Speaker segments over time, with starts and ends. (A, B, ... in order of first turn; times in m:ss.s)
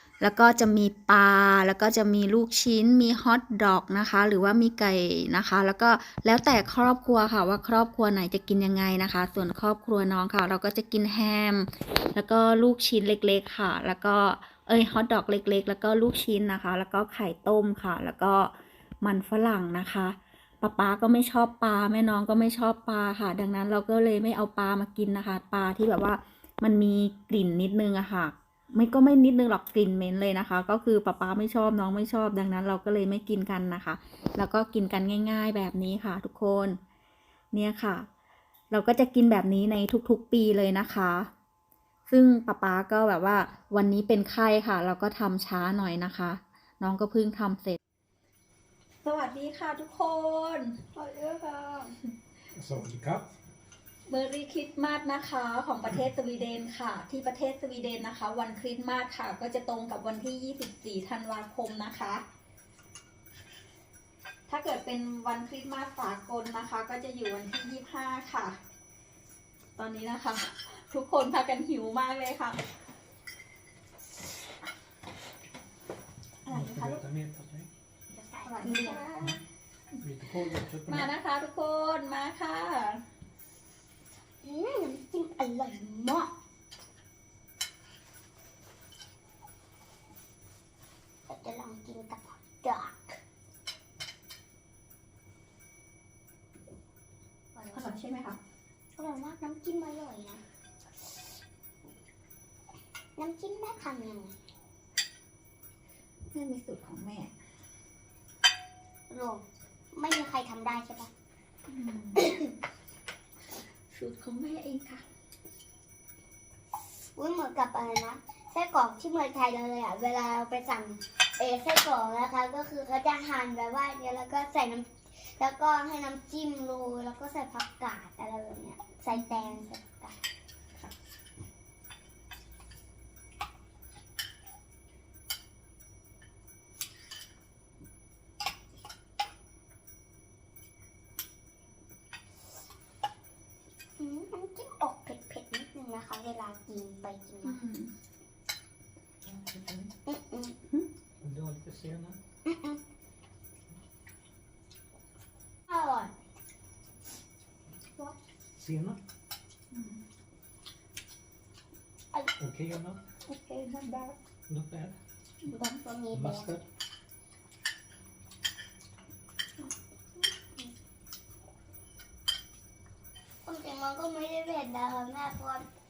0:00.2-0:36.8 A
0:37.5-0:38.1 A
0:38.7-0:41.3 A
0:42.1-0:47.8 A
0:49.0-0:51.9 A
0:52.6-0:53.3 B
0:54.1-1:02.2 A
1:04.5-1:08.6 A
1:09.8-1:12.6 A
1:16.4-1:17.0 A
1:16.5-1:17.7 B
1:18.1-1:19.4 C
1:18.4-1:19.2 A
1:20.0-1:21.1 B
1:20.9-1:23.0 A
1:24.4-1:26.3 C
1:31.3-1:33.2 C
1:37.5-1:38.0 C
1:37.7-1:38.4 A
1:39.0-1:40.4 C
1:43.2-1:44.4 C
1:46.3-1:47.3 A
1:49.1-1:51.1 C
1:51.7-1:52.3 A
1:52.2-1:52.5 C
1:53.9-1:55.0 A
1:57.2-2:10.2 C
2:09.1-2:09.6 A
2:24.0-2:27.6 C
2:27.4-2:27.9 A
2:29.3-2:29.6 B
2:30.1-2:30.6 C
2:31.2-2:32.2 B
2:32.5-2:32.8 C
2:35.7-2:36.1 C
2:38.6-2:39.0 B
2:39.7-2:40.0 A
2:42.4-2:43.0 B
2:43.3-2:44.2 A
2:44.5-2:45.0 B
2:45.5-2:46.5 C
2:46.1-2:46.6 B
2:50.2-2:50.7 C
2:53.4-2:55.7 C